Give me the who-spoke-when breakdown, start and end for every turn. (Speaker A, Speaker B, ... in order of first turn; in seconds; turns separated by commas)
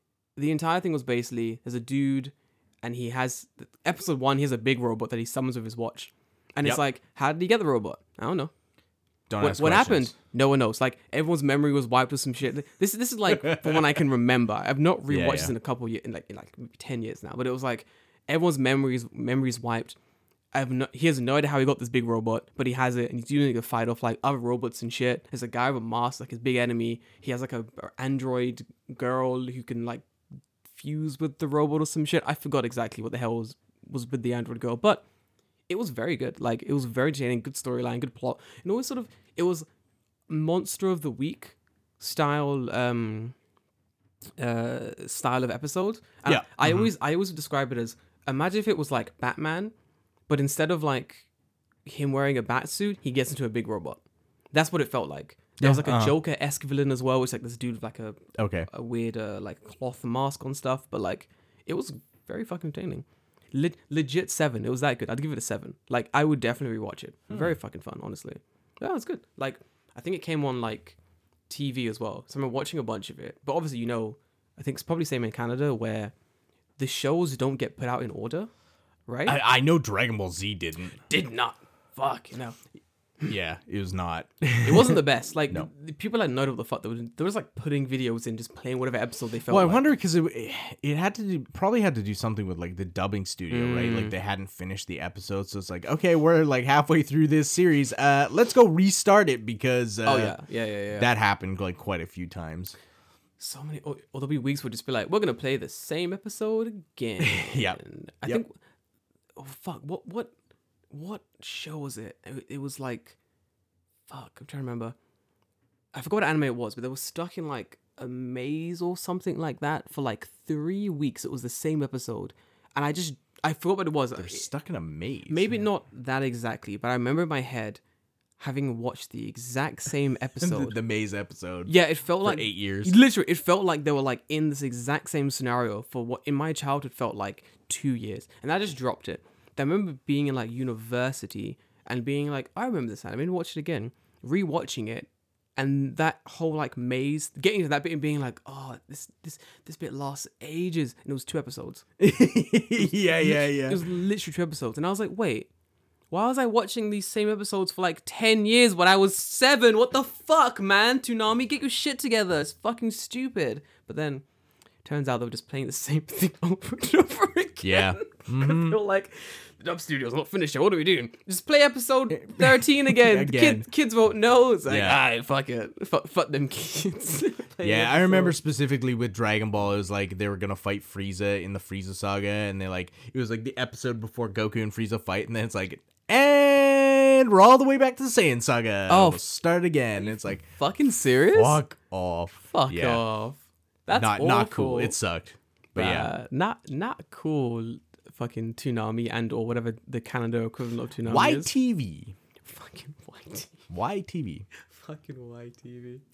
Speaker A: 0.4-8.5, Speaker B: 9.3-10.1, Speaker A: 9.4-20.0, Speaker B: 13.4-13.8, Speaker B: 15.1-15.5, Speaker A: 20.5-30.1, Speaker A: 30.7-35.0, Speaker A: 35.7-39.7, Speaker A: 40.3-43.4, Speaker A: 44.4-49.7, Speaker B: 46.3-46.9, Speaker A: 50.3-51.3, Speaker A: 51.9-54.0, Speaker A: 54.5-71.0, Speaker B: 55.6-56.2, Speaker B: 58.4-58.7, Speaker A: 71.5-76.1, Speaker A: 76.8-78.5, Speaker A: 79.1-79.4, Speaker B: 79.3-81.0, Speaker A: 81.1-82.6, Speaker B: 83.3-85.7, Speaker A: 84.6-89.8, Speaker B: 89.5-100.4, Speaker A: 93.5-94.1, Speaker A: 100.0-101.1, Speaker B: 101.0-102.8, Speaker A: 103.4-108.5, Speaker B: 107.2-108.4, Speaker A: 109.4-110.3, Speaker A: 110.9-113.2, Speaker A: 114.1-115.0, Speaker A: 115.9-124.5, Speaker B: 124.2-125.6, Speaker A: 125.3-127.8, Speaker A: 128.4-130.8, Speaker B: 130.4-132.9, Speaker A: 131.7-151.8, Speaker B: 152.0-153.8, Speaker A: 152.8-155.5, Speaker A: 156.1-164.2, Speaker A: 164.8-178.4, Speaker B: 167.6-168.8, Speaker B: 172.1-173.7, Speaker B: 174.7-175.0, Speaker B: 177.6-190.5, Speaker A: 188.9-189.2, Speaker A: 190.5-191.6, Speaker B: 191.3-193.0, Speaker A: 192.5-195.0, Speaker B: 193.9-196.1, Speaker A: 195.8-201.5, Speaker B: 201.0-202.2, Speaker A: 202.4-203.6, Speaker B: 203.7-204.5, Speaker A: 204.6-206.0